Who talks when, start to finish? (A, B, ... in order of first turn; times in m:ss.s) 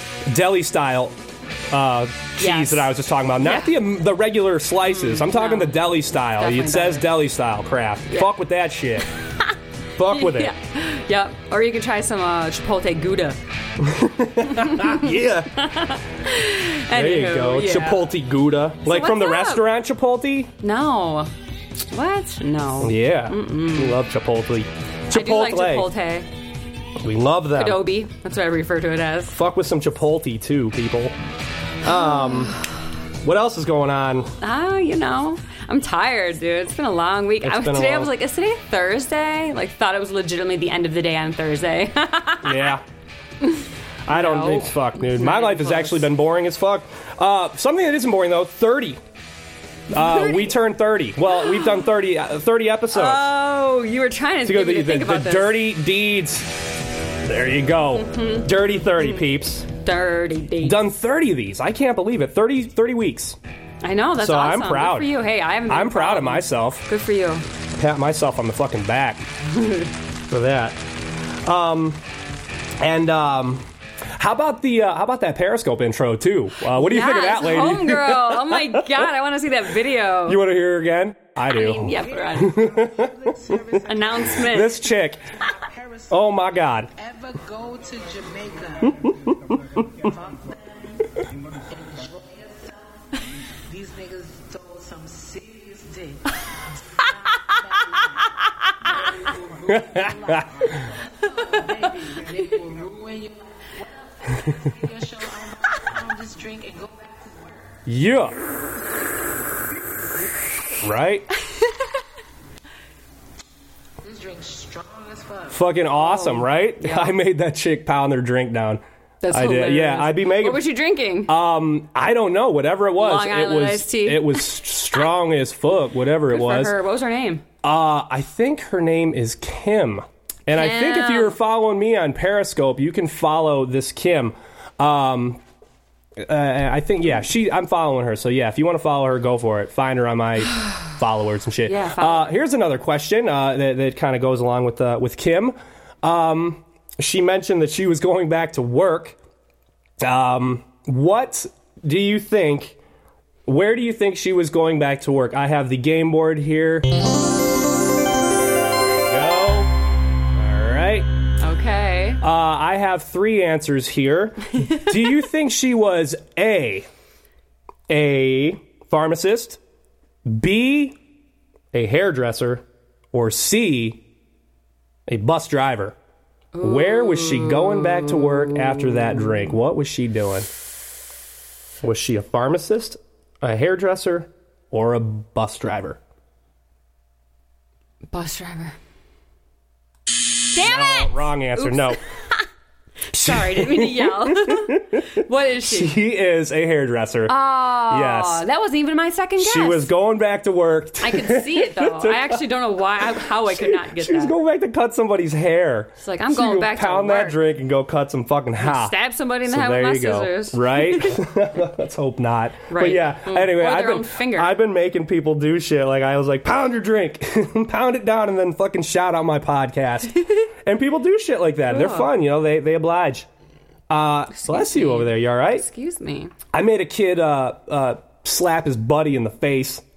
0:00.3-0:01.2 A
0:01.7-0:09.1 A
0:02.4-0:02.9 B
0:03.4-0:03.7 B
0:04.8-0:05.8 B
0:06.4-0:07.2 B
0:10.0-0:10.5 A
0:10.1-0:13.4 B
0:13.8-0:15.6 A
0:14.5-0:18.1 B
0:16.9-0:20.5 A
0:18.9-0:19.7 B
0:20.6-0:21.3 B
0:21.9-0:24.0 B
0:22.8-0:25.9 A
0:25.1-0:26.3 B
0:27.0-0:27.9 A
0:27.6-0:29.4 B
0:29.3-0:31.2 A
0:31.8-0:32.6 A
0:31.9-0:32.6 B
0:33.2-0:34.3 A
0:34.4-0:42.8 B
0:37.4-0:38.1 A
0:42.4-0:42.8 A
0:43.4-0:46.1 B
0:44.1-0:49.0 A
0:49.9-0:53.3 A
0:49.9-0:50.5 B
0:52.9-0:55.6 B
0:54.4-0:56.5 A
0:57.2-0:59.7 A
0:58.0-0:59.2 B
0:59.8-1:00.8 B
1:00.6-1:03.4 A
1:03.8-1:07.4 B
1:04.2-1:05.2 A
1:05.7-1:06.8 A
1:07.8-1:09.2 A
1:09.5-1:09.9 B
1:10.3-1:10.8 A
1:11.4-1:12.0 A
1:12.8-1:19.1 A
1:16.8-1:20.4 B
1:20.3-1:23.3 A
1:21.5-1:22.6 B
1:22.0-1:24.3 C
1:23.9-1:24.9 B
1:24.3-1:25.3 A
1:25.4-1:26.1 C
1:26.1-1:26.9 A
1:27.0-1:29.3 C
1:29.1-1:29.7 A
1:29.8-1:47.8 C
1:39.7-1:40.7 A
1:47.9-1:48.4 A
1:50.8-1:51.3 A
1:54.0-1:55.7 C
1:55.5-2:00.7 A
1:56.0-1:57.1 B
1:59.2-2:01.3 B
2:01.3-2:06.8 A
2:03.0-2:04.5 B
2:06.3-2:07.4 B
2:07.6-2:15.4 A
2:10.5-2:11.4 B
2:16.2-2:29.2 A
2:21.7-2:22.3 B
2:30.0-2:32.8 A
2:33.5-2:36.9 A
2:39.0-2:39.7 A
2:40.4-2:41.1 A
2:41.4-2:42.2 B
2:42.2-2:46.9 A
2:47.9-2:49.6 A
2:50.2-2:51.0 A
2:51.7-2:54.0 A
2:55.1-2:56.0 A
2:56.5-2:59.3 B
2:56.6-3:00.5 A
3:01.8-3:06.0 A
3:08.1-3:08.8 B
3:10.5-3:12.4 B
3:10.5-3:12.0 A
3:13.1-3:15.1 A
3:13.1-3:16.0 B
3:15.6-3:18.4 A
3:17.3-3:19.9 B
3:19.4-3:22.4 A
3:21.0-3:24.4 B
3:23.0-3:43.3 A
3:26.0-3:27.4 B
3:28.6-3:31.2 B
3:32.7-3:34.5 B
3:41.7-3:42.1 B
3:43.9-3:45.6 A
3:44.3-3:46.3 B
3:46.5-3:49.8 A